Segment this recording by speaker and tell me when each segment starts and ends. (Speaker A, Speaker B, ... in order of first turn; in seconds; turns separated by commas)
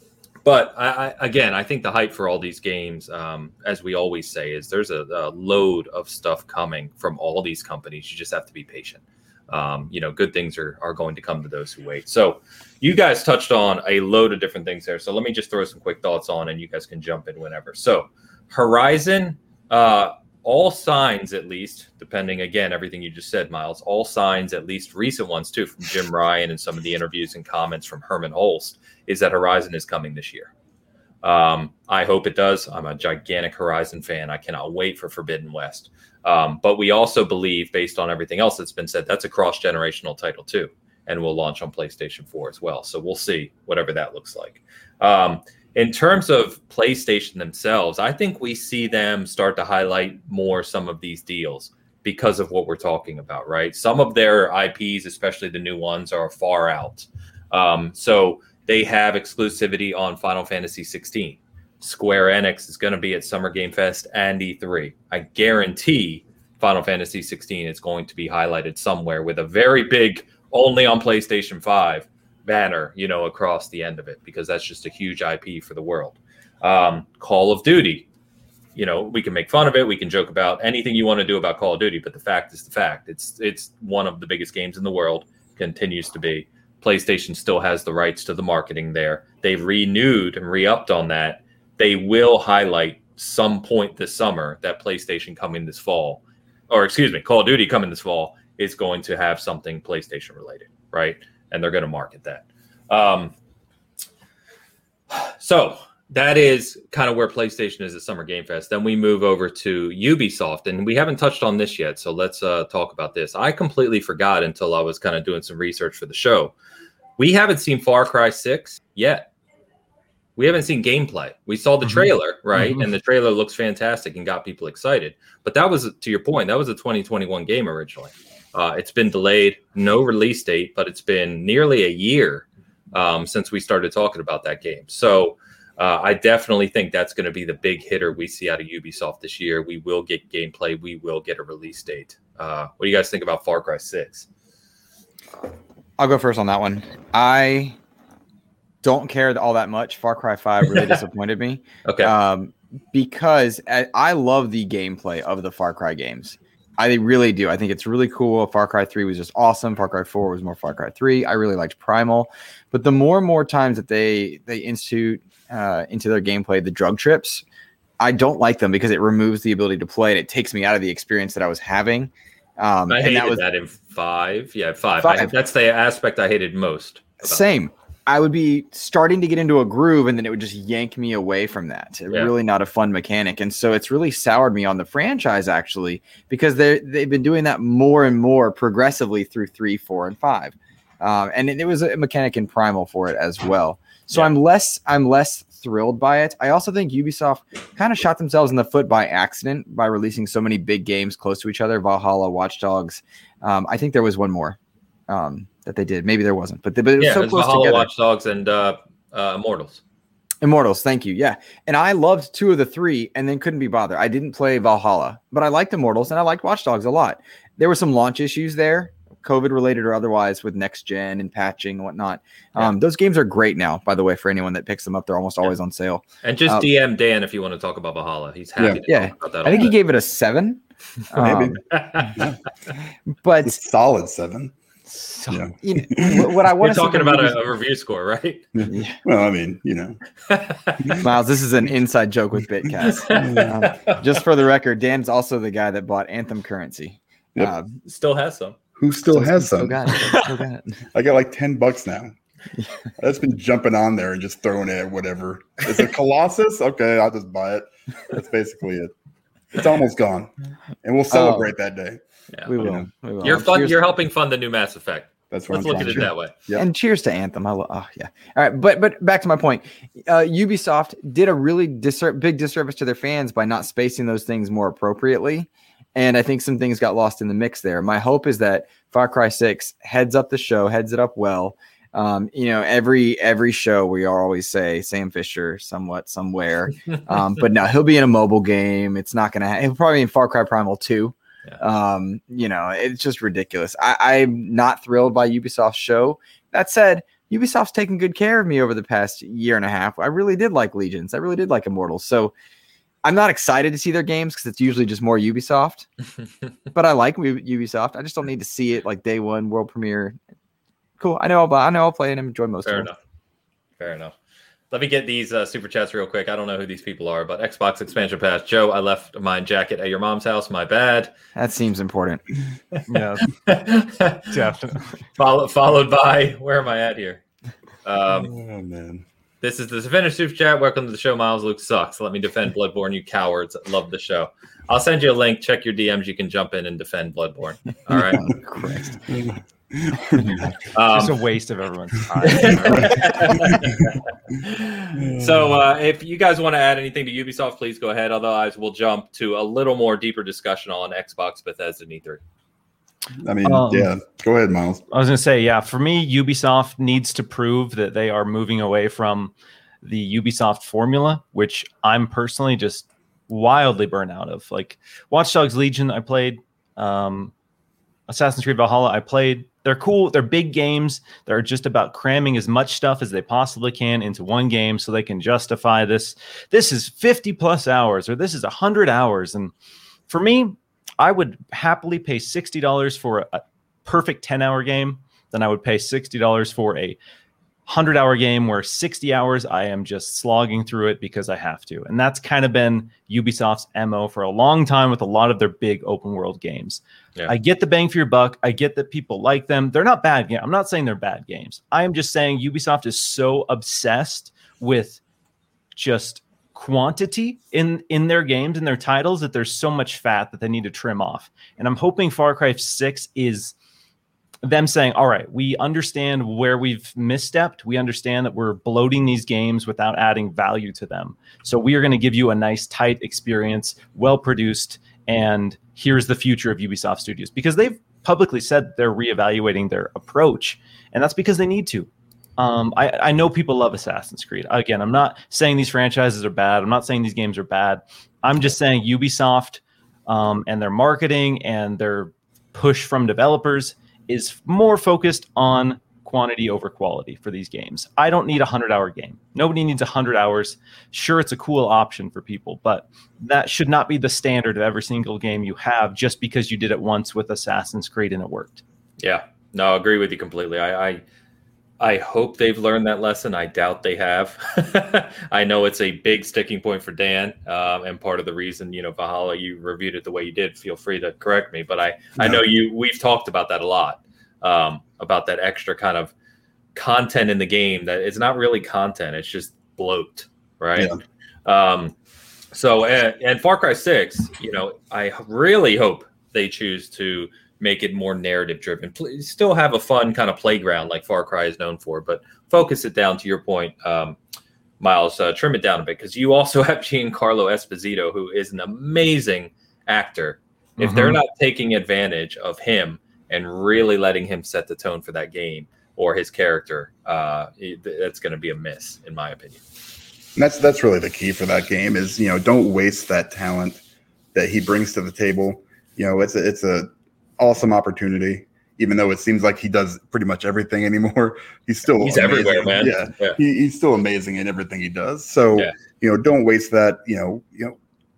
Speaker A: 0.4-30.5, Speaker A: 31.2-78.0, Speaker A: 78.7-103.3, Speaker A: 105.1-116.5, Speaker A: 117.2-119.3, Speaker A: 120.4-144.3, Speaker B: 121.8-122.9, Speaker C: 145.4-147.8, Speaker C: 148.8-167.4, Speaker A: 151.8-152.1, Speaker C: 168.0-173.4, Speaker A: 172.9-177.4, Speaker C: 175.0-175.3, Speaker C: 177.2-204.6, Speaker C: 205.1-207.9, Speaker A: 207.0-209.8, Speaker C: 210.4-226.7, Speaker A: 226.2-229.7, Speaker C: 228.8-232.1, Speaker D: 231.1-232.4, Speaker A: 231.7-232.2, Speaker C: 233.1-233.6, Speaker D: 233.4-234.5, Speaker B: 234.9-235.4, Speaker D: 235.3-236.3, Speaker C: 235.6-237.4, Speaker A: 236.6-238.5, Speaker D: 238.5-240.0, Speaker C: 238.7-239.0, Speaker A: 240.3-241.0, Speaker D: 240.8-241.1, Speaker C: 241.0-247.8, Speaker A: 242.8-244.2, Speaker D: 243.1-243.6, Speaker A: 247.8-248.6, Speaker D: 248.8-249.8, Speaker C: 249.1-250.8, Speaker D: 250.9-252.1, Speaker D: 253.0-258.9, Speaker D: 259.5-260.3, Speaker D: 260.8-262.0, Speaker C: 261.1-261.5, Speaker A: 262.3-262.6, Speaker C: 262.4-263.8, Speaker D: 262.6-262.9, Speaker A: 263.2-266.3, Speaker D: 265.3-266.6, Speaker C: 265.9-302.3, Speaker C: 303.0-305.9, Speaker C: 306.7-310.1, Speaker C: 311.0-312.9, Speaker A: 312.6-313.0, Speaker A: 313.8-314.1, Speaker A: 314.7-321.1, Speaker C: 321.3-322.2, Speaker B: 322.9-323.3, Speaker A: 323.4-324.4, Speaker B: 324.3-325.0, Speaker A: 325.2-327.2, Speaker A: 327.8-328.3, Speaker D: 328.1-329.0, Speaker A: 329.4-338.3, Speaker C: 338.1-339.0, Speaker D: 338.1-340.6, Speaker A: 340.7-341.2, Speaker B: 340.9-343.1, Speaker A: 342.2-352.2, Speaker D: 342.4-343.9, Speaker D: 344.9-345.5, Speaker D: 353.2-354.8, Speaker B: 353.4-353.9, Speaker B: 354.9-367.3, Speaker B: 368.1-379.5, Speaker B: 380.1-387.0, Speaker B: 387.6-405.0, Speaker B: 405.7-413.5, Speaker B: 414.4-458.6, Speaker A: 459.0-461.0, Speaker A: 461.8-476.1, Speaker A: 476.7-480.9, Speaker A: 481.4-481.9, Speaker A: 482.5-494.2, Speaker A: 494.8-509.6, Speaker B: 500.8-501.2, Speaker D: 510.4-513.8, Speaker D: 514.3-527.8, Speaker A: 522.0-523.4